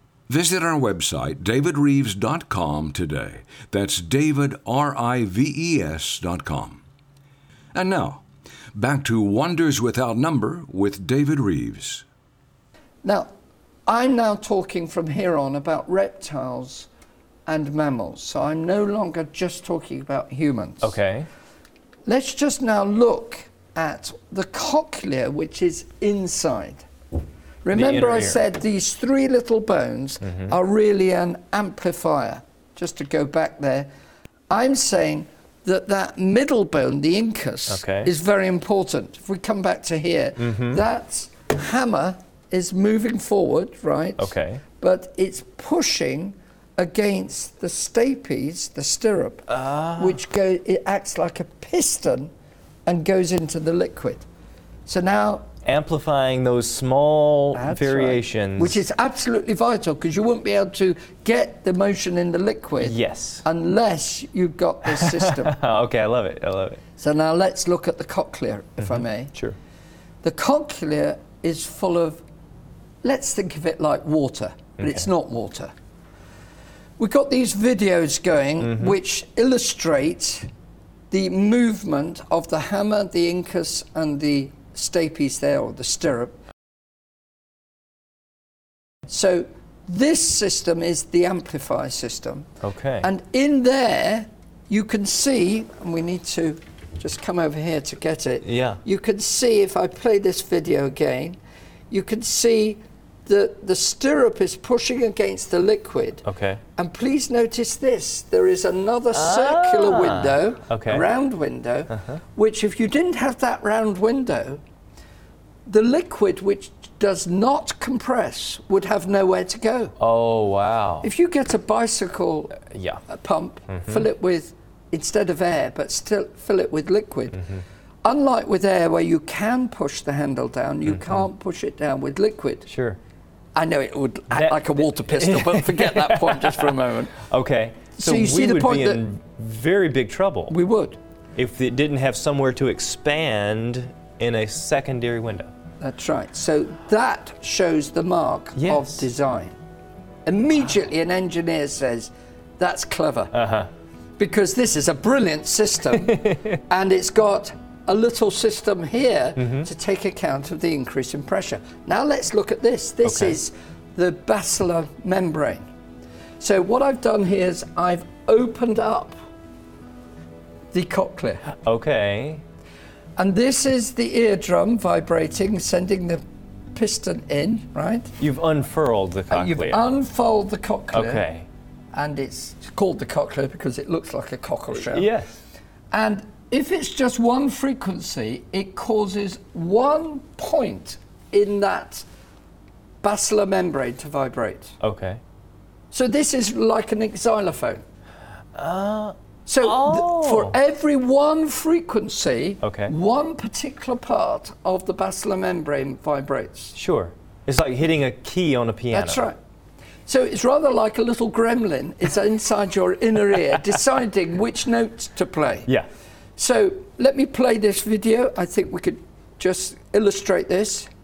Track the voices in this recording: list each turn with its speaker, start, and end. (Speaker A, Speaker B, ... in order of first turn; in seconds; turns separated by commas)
Speaker A: 0.3-6.8, Speaker A: 7.7-12.0, Speaker B: 13.0-13.3, Speaker B: 13.9-16.9, Speaker B: 17.5-20.9, Speaker C: 20.8-21.3, Speaker B: 22.1-26.9, Speaker B: 27.6-33.9, Speaker C: 27.7-28.4, Speaker C: 30.2-30.5, Speaker B: 34.5-52.3, Speaker C: 37.7-38.1, Speaker C: 40.4-40.8, Speaker C: 44.2-44.6, Speaker C: 49.5-50.1, Speaker B: 52.9-54.2, Speaker B: 54.9-55.5, Speaker C: 55.6-58.8, Speaker B: 57.5-65.6, Speaker C: 62.8-63.4, Speaker C: 64.9-66.8, Speaker B: 67.0-69.3, Speaker C: 68.8-69.5, Speaker B: 70.2-72.2, Speaker B: 73.0-75.7, Speaker C: 74.8-75.0, Speaker B: 77.0-80.5, Speaker C: 78.6-78.9, Speaker B: 81.1-86.3, Speaker B: 89.1-92.5, Speaker C: 92.6-93.1, Speaker B: 93.0-101.4, Speaker C: 98.4-98.8, Speaker B: 101.9-106.2, Speaker C: 106.2-106.6, Speaker B: 106.8-114.6, Speaker C: 109.1-111.0, Speaker C: 111.9-112.2, Speaker B: 115.7-120.0, Speaker C: 120.0-121.1, Speaker B: 121.0-127.4, Speaker C: 122.7-123.0, Speaker C: 123.7-124.0, Speaker B: 128.0-132.7, Speaker C: 130.9-131.2, Speaker C: 132.7-133.0, Speaker B: 133.5-137.2, Speaker C: 134.3-140.5, Speaker B: 138.0-139.0, Speaker B: 140.5-141.0, Speaker C: 141.3-145.5, Speaker B: 145.8-149.5, Speaker C: 148.6-149.0, Speaker B: 150.2-153.3, Speaker C: 153.3-153.7, Speaker B: 154.2-165.7, Speaker C: 156.0-156.6, Speaker C: 159.4-159.7, Speaker C: 163.0-163.4, Speaker B: 166.4-169.2, Speaker B: 170.7-171.4, Speaker C: 171.5-172.4, Speaker B: 173.2-176.2, Speaker B: 176.7-178.1, Speaker C: 178.2-179.8, Speaker B: 179.3-181.2, Speaker C: 180.9-181.4, Speaker B: 181.9-185.1, Speaker C: 184.7-185.4, Speaker B: 185.9-192.0, Speaker B: 193.0-194.8, Speaker C: 194.8-195.2, Speaker B: 195.9-197.8, Speaker C: 198.5-200.6, Speaker B: 199.4-206.7, Speaker C: 202.6-202.9, Speaker C: 206.7-209.3, Speaker B: 208.9-209.3, Speaker B: 210.1-215.7, Speaker B: 216.4-220.9